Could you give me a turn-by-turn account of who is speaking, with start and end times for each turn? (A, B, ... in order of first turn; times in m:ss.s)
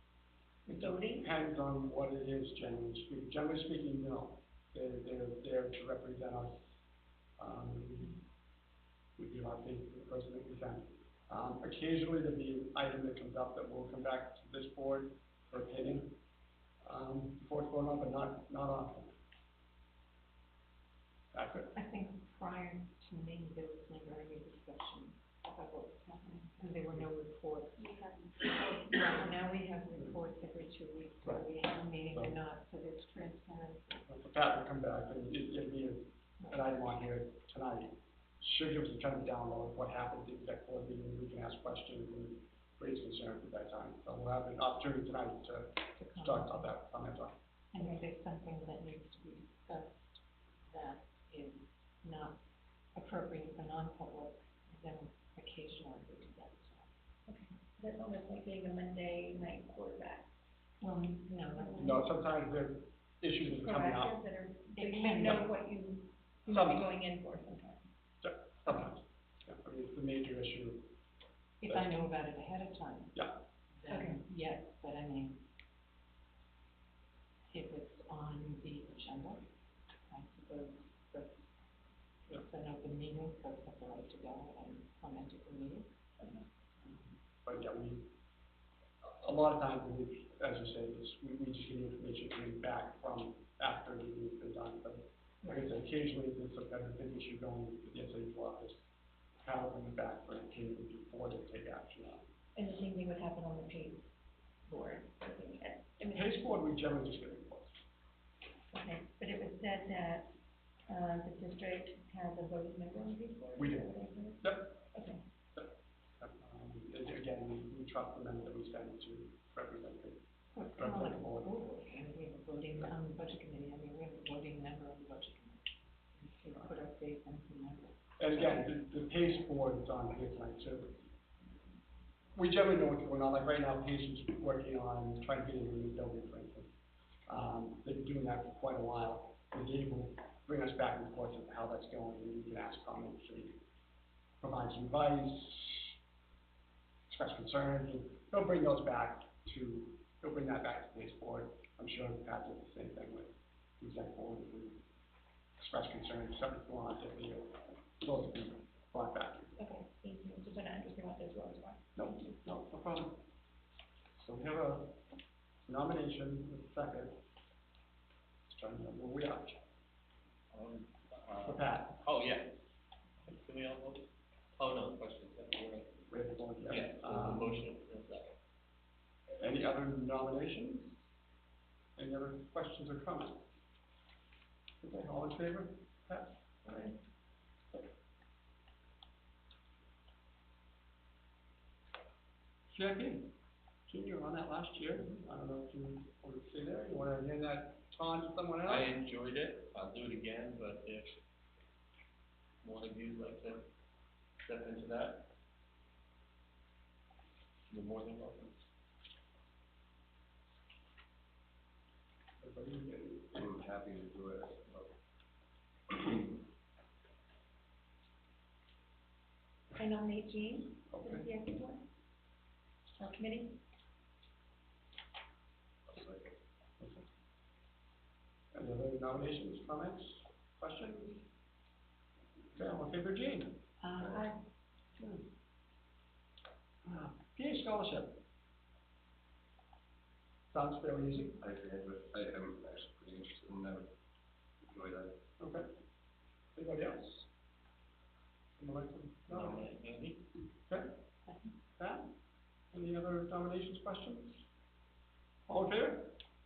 0:00.7-0:01.3 A
0:00.7-0:06.8 B
0:07.4-0:08.2 B
0:09.2-0:16.2 B
0:16.8-0:19.1 B
0:21.3-0:21.7 B
0:21.7-0:34.0 C
0:27.8-0:29.2 A
0:34.1-0:47.4 B
0:36.4-0:36.7 C
0:46.0-0:46.7 C
0:47.7-0:50.2 C
0:50.7-0:52.4 C
0:53.0-0:56.9 C
0:57.3-1:00.3 A
1:00.8-1:02.1 C
1:01.5-1:02.0 A
1:01.8-1:04.2 B
1:03.5-1:07.9 A
1:04.7-1:05.5 C
1:06.5-1:06.9 B
1:08.2-1:10.9 B
1:11.6-1:15.4 C
1:13.9-1:14.2 A
1:17.5-1:19.5 C
1:20.1-1:21.5 C
1:22.3-1:25.9 C
1:27.4-1:28.1 B
1:29.0-1:38.8 B
1:35.4-1:35.8 C
1:39.4-1:42.2 B
1:42.6-1:44.1 A
1:44.7-1:46.5 A
1:46.1-1:47.7 B
1:48.7-1:50.3 A
1:50.9-1:55.2 A
1:53.6-1:54.8 B
1:55.6-2:00.2 B
2:00.5-2:08.8 C
2:00.8-2:01.5 B
2:08.2-2:11.0 B
2:12.4-2:16.7 B
2:17.3-2:23.6 B
2:24.4-2:26.0 B
2:27.1-2:34.8 B
2:35.6-2:39.6 B
2:39.6-2:41.8 A
2:42.0-2:43.2 B
2:44.2-2:45.0 B
2:45.7-2:47.2 B
2:48.5-2:49.6 B
2:50.5-2:52.6 D
2:51.4-2:52.0 B
2:53.2-2:54.1 D
2:54.6-2:56.0 D
2:56.1-2:57.6 B
2:56.7-2:58.3 D
2:59.4-3:01.0 B
3:02.0-3:03.4 B
3:04.8-3:06.9 B
3:12.7-3:13.3 B
3:13.9-3:18.9 B
3:18.6-3:21.2 D
3:22.6-3:23.6 D
3:24.4-3:25.3 D
3:27.7-3:28.6 D
3:32.4-3:33.4 B
3:33.3-3:34.9 E
3:39.7-3:41.8 A
3:40.9-3:41.3 B
3:43.0-3:43.6 A
3:45.9-3:46.3 E
3:46.8-3:47.0 B
3:48.5-3:51.3 B
3:52.5-3:53.6 B
3:53.9-3:54.1 C
3:54.0-3:54.3 E
3:54.1-3:54.4 A
3:55.0-3:55.2 B
3:56.8-3:58.2 B
4:00.5-4:01.4 B
4:01.4-4:03.9 E
4:04.7-4:05.2 E
4:05.4-4:05.6 B
4:06.6-4:07.3 B
4:08.6-4:09.7 B
4:09.3-4:10.2 D
4:11.3-4:11.5 C
4:11.8-4:12.1 B
4:12.7-4:14.4 B
4:15.5-4:16.2 B